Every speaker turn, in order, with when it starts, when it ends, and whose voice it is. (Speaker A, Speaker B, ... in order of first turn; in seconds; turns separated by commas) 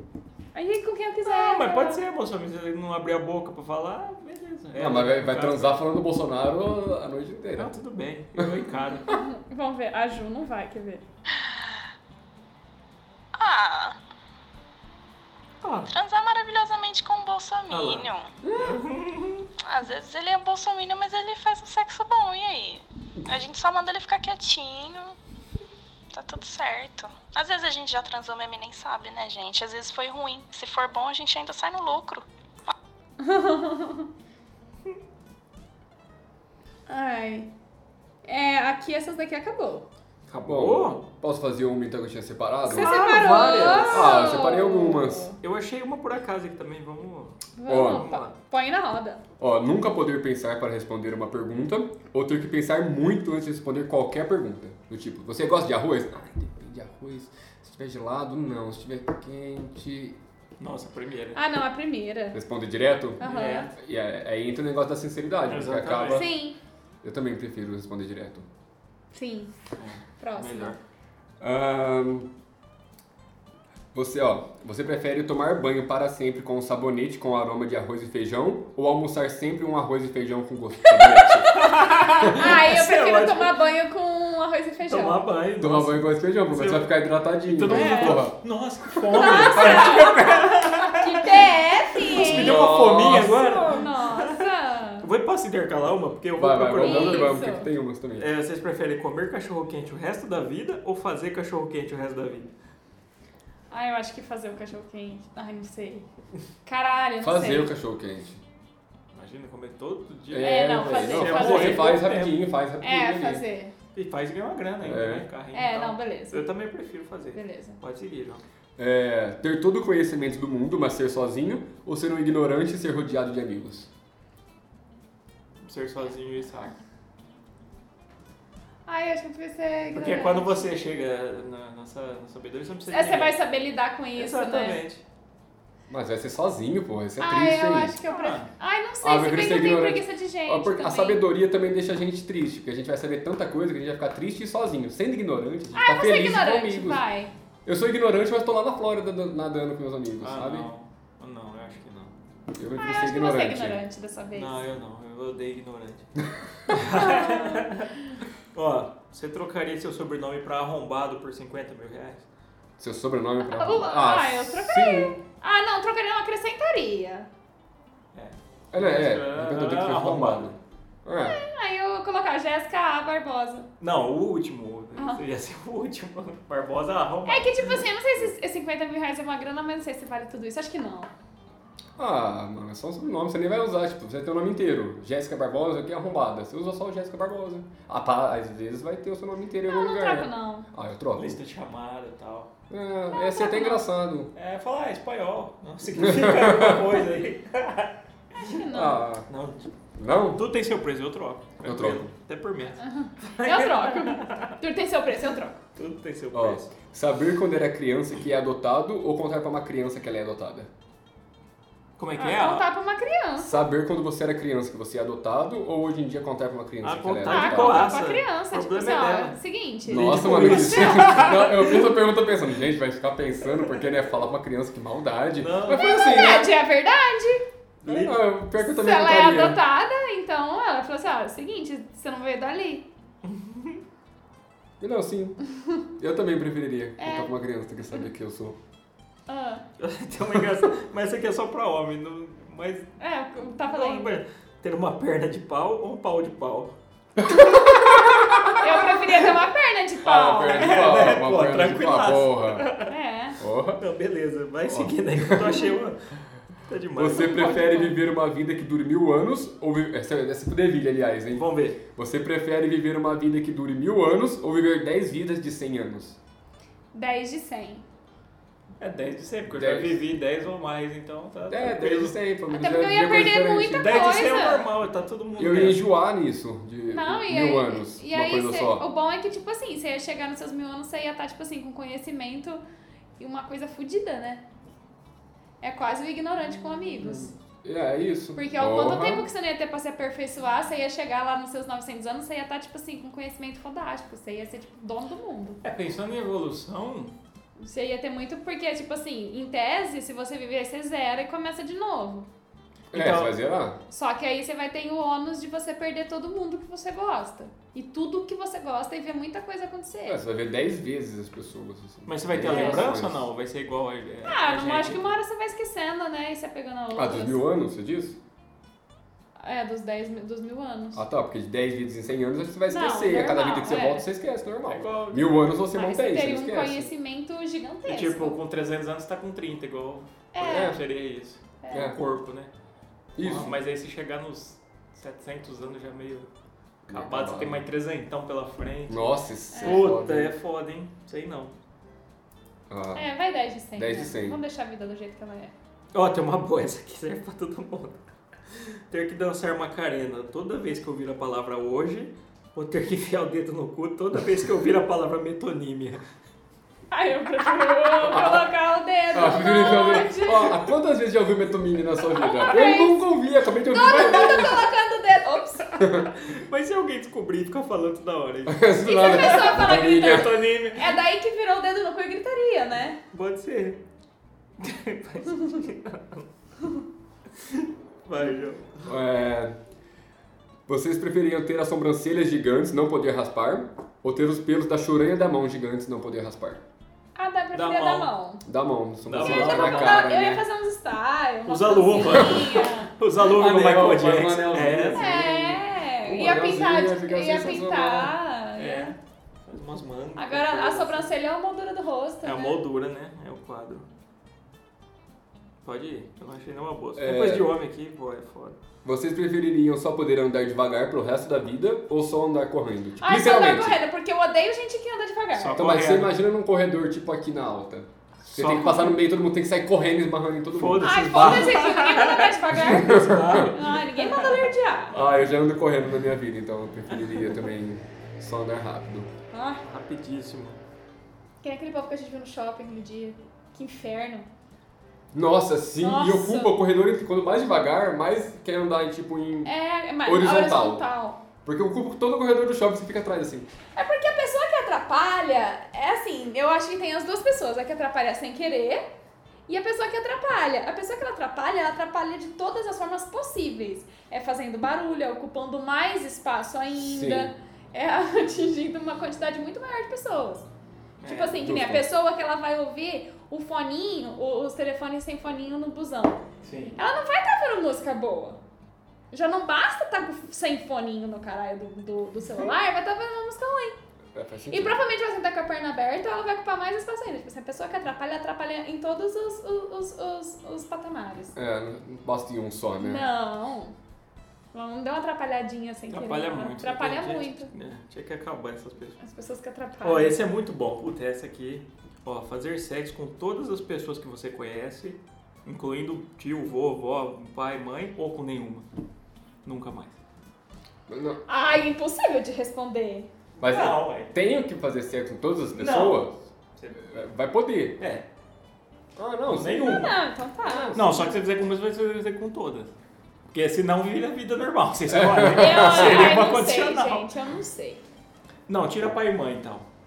Speaker A: 0.5-2.0, Speaker B: 1.2-5.8, Speaker C: 4.7-7.8, Speaker B: 7.6-9.2, Speaker A: 9.1-11.0, Speaker D: 13.4-14.0, Speaker B: 15.6-15.9, Speaker D: 15.9-18.3, Speaker B: 17.7-19.5, Speaker C: 18.4-18.8, Speaker D: 19.6-25.2, Speaker D: 26.1-32.7, Speaker A: 33.2-34.1, Speaker A: 36.9-37.5, Speaker A: 38.2-39.9, Speaker B: 40.3-41.0, Speaker C: 40.3-45.3, Speaker A: 42.7-45.4, Speaker B: 42.7-44.4, Speaker B: 45.4-48.4, Speaker A: 47.6-49.2, Speaker C: 47.7-48.1, Speaker C: 49.4-60.2, Speaker B: 60.6-61.4, Speaker A: 61.4-62.4, Speaker C: 62.3-66.3, Speaker A: 63.2-63.7, Speaker B: 63.2-63.7, Speaker B: 65.5-66.3, Speaker A: 66.1-66.6, Speaker C: 67.0-68.5, Speaker A: 69.1-69.5, Speaker B: 69.8-70.8, Speaker A: 70.2-70.8, Speaker C: 71.4-72.3, Speaker C: 73.9-81.6, Speaker A: 80.8-85.3, Speaker B: 81.5-83.7, Speaker B: 84.8-94.4, Speaker C: 85.6-88.4, Speaker A: 87.7-88.2, Speaker C: 88.9-89.9, Speaker A: 89.1-95.1, Speaker C: 92.1-93.5, Speaker B: 95.0-97.4, Speaker C: 96.4-98.3, Speaker A: 96.8-97.7, Speaker B: 98.2-102.5, Speaker A: 103.7-106.0, Speaker A: 106.7-107.7, Speaker C: 107.2-108.4, Speaker B: 109.1-112.4, Speaker C: 110.3-113.4, Speaker A: 110.4-112.0, Speaker A: 112.8-113.7, Speaker B: 114.0-118.4, Speaker C: 114.8-115.3, Speaker A: 115.5-116.5, Speaker A: 117.3-117.8, Speaker C: 118.8-123.9, Speaker B: 125.6-126.8, Speaker A: 128.9-130.7, Speaker B: 129.9-133.4, Speaker A: 132.9-134.8, Speaker B: 134.2-135.0, Speaker C: 135.9-138.0, Speaker A: 137.2-141.2, Speaker B: 138.1-138.5, Speaker C: 139.0-147.1, Speaker A: 145.7-147.3, Speaker C: 147.7-150.7, Speaker B: 150.2-152.2, Speaker C: 152.5-153.8, Speaker A: 152.8-154.6, Speaker B: 154.3-156.1, Speaker B: 156.7-157.9, Speaker A: 156.9-157.7, Speaker B: 158.5-162.3, Speaker C: 162.8-165.2, Speaker A: 163.4-167.3, Speaker B: 168.1-170.6, Speaker C: 168.7-171.4, Speaker A: 171.2-173.7, Speaker B: 173.8-177.8, Speaker A: 175.0-175.2, Speaker A: 177.3-181.1, Speaker C: 182.0-191.4, Speaker A: 189.7-190.7, Speaker B: 191.2-192.5, Speaker C: 192.7-194.3, Speaker A: 193.1-193.9, Speaker B: 194.3-198.0, Speaker C: 196.0-197.0, Speaker A: 198.4-199.1, Speaker C: 198.7-199.3, Speaker B: 199.3-199.7, Speaker C: 200.0-200.5, Speaker B: 200.2-204.6, Speaker C: 201.6-202.1, Speaker A: 202.8-205.6, Speaker B: 205.8-206.7, Speaker C: 206.3-210.7, Speaker B: 212.0-212.7, Speaker A: 212.2-213.6, Speaker C: 213.4-218.0, Speaker B: 216.8-221.9, Speaker A: 217.3-221.2, Speaker C: 219.9-226.6, Speaker B: 225.4-226.0, Speaker A: 225.7-227.4, Speaker C: 227.8-229.6, Speaker B: 227.8-228.2, Speaker A: 228.6-232.9, Speaker B: 233.2-233.8, Speaker C: 234.8-235.4, Speaker C: 236.0-238.6, Speaker A: 237.0-237.3, Speaker A: 239.3-239.7, Speaker B: 239.8-242.9, Speaker A: 243.0-244.2, Speaker B: 243.7-246.8, Speaker C: 247.2-248.4, Speaker B: 248.0-248.5, Speaker A: 248.6-250.8, Speaker C: 250.0-252.7, Speaker B: 250.5-252.9, Speaker A: 252.9-253.4, Speaker C: 253.4-253.8, Speaker B: 253.8-256.0, Speaker C: 254.7-255.7, Speaker B: 256.7-257.5, Speaker C: 256.9-266.2, Speaker A: 257.1-258.0, Speaker B: 261.3-261.8, Speaker A: 266.9-267.8, Speaker B: 268.8-272.2, Speaker C: 269.5-270.0, Speaker C: 271.5-274.1, Speaker A: 272.5-274.7, Speaker B: 273.7-275.8, Speaker C: 275.4-278.9, Speaker A: 276.9-282.6, Speaker A: 283.2-284.4, Speaker A: 285.6-287.3, Speaker C: 287.1-289.3, Speaker A: 288.4-295.6, Speaker B: 295.6-297.1, Speaker A: 297.6-302.3, Speaker B: 302.9-303.3, Speaker C: 302.9-303.8, Speaker A: 303.9-310.2, Speaker C: 310.1-313.3, Speaker B: 312.1-315.1, Speaker A: 312.4-312.9, Speaker A: 314.3-317.4, Speaker C: 316.9-318.2, Speaker A: 319.4-321.0, Speaker C: 320.9-326.9, Speaker A: 322.7-324.1, Speaker B: 324.7-325.5, Speaker A: 325.7-328.4, Speaker B: 327.9-332.5, Speaker A: 330.3-330.8, Speaker C: 330.4-330.8, Speaker A: 331.6-331.9, Speaker C: 331.7-332.0, Speaker C: 333.1-333.6, Speaker B: 333.2-336.3, Speaker B: 336.9-341.5, Speaker C: 336.9-337.7, Speaker C: 338.9-340.4, Speaker A: 339.5-339.9, Speaker C: 342.7-343.1, Speaker A: 342.9-345.5, Speaker C: 343.8-344.4, Speaker B: 345.9-348.0, Speaker B: 348.5-356.0, Speaker A: 356.9-360.7, Speaker C: 358.0-358.5, Speaker C: 359.1-364.7, Speaker A: 362.1-363.1, Speaker A: 363.6-365.7, Speaker B: 365.6-371.0, Speaker C: 365.8-366.1, Speaker C: 368.5-370.4, Speaker A: 368.8-373.0, Speaker B: 373.1-373.8, Speaker B: 374.6-376.3, Speaker B: 377.4-378.8, Speaker C: 378.8-379.6, Speaker C: 380.7-386.6, Speaker A: 387.2-388.4, Speaker B: 387.5-388.1, Speaker C: 388.4-390.4, Speaker B: 389.1-390.1, Speaker A: 389.2-392.9, Speaker B: 391.5-395.0, Speaker C: 393.2-398.1, Speaker A: 394.9-398.9, Speaker B: 398.6-401.1, Speaker A: 400.2-402.6, Speaker B: 402.2-403.9, Speaker B: 405.6-408.6, Speaker C: 407.0-407.5, Speaker C: 408.8-413.8, Speaker A: 413.0-415.7, Speaker B: 415.4-416.2, Speaker C: 415.5-421.7, Speaker B: 418.3-419.0, Speaker B: 420.5-424.5, Speaker A: 420.8-425.0, Speaker C: 422.5-423.6, Speaker C: 424.9-429.1, Speaker A: 429.3-429.6, Speaker B: 429.6-430.6, Speaker A: 431.4-434.3, Speaker C: 435.1-439.5, Speaker A: 435.8-436.6, Speaker A: 439.4-441.2, Speaker C: 440.0-440.9, Speaker C: 441.4-443.5, Speaker A: 443.8-448.9, Speaker A: 449.5-460.5, Speaker C: 456.8-457.3, Speaker B: 461.0-461.5, Speaker A: 461.1-466.2, Speaker C: 461.4-461.9, Speaker B: 466.4-466.8, Speaker A: 466.8-468.4, Speaker A: 469.1-473.8, Speaker C: 474.1-474.8, Speaker A: 474.5-481.4, Speaker C: 481.4-483.1, Speaker A: 482.8-483.7, Speaker A: 484.5-487.5, Speaker B: 485.9-489.0, Speaker A: 489.0-490.2, Speaker B: 489.8-498.7, Speaker B: 499.4-500.0, Speaker C: 500.9-501.2, Speaker A: 501.3-503.1, Speaker C: 503.4-506.1, Speaker B: 503.4-504.1, Speaker B: 505.5-506.9, Speaker C: 506.8-507.8, Speaker B: 507.8-508.1, Speaker C: 509.0-509.9, Speaker B: 509.3-509.9, Speaker A: 509.6-511.1, Speaker C: 510.4-511.1, Speaker B: 510.7-512.7, Speaker B: 513.3-517.1, Speaker C: 514.9-516.3, Speaker A: 515.2-517.8, Speaker B: 518.5-519.7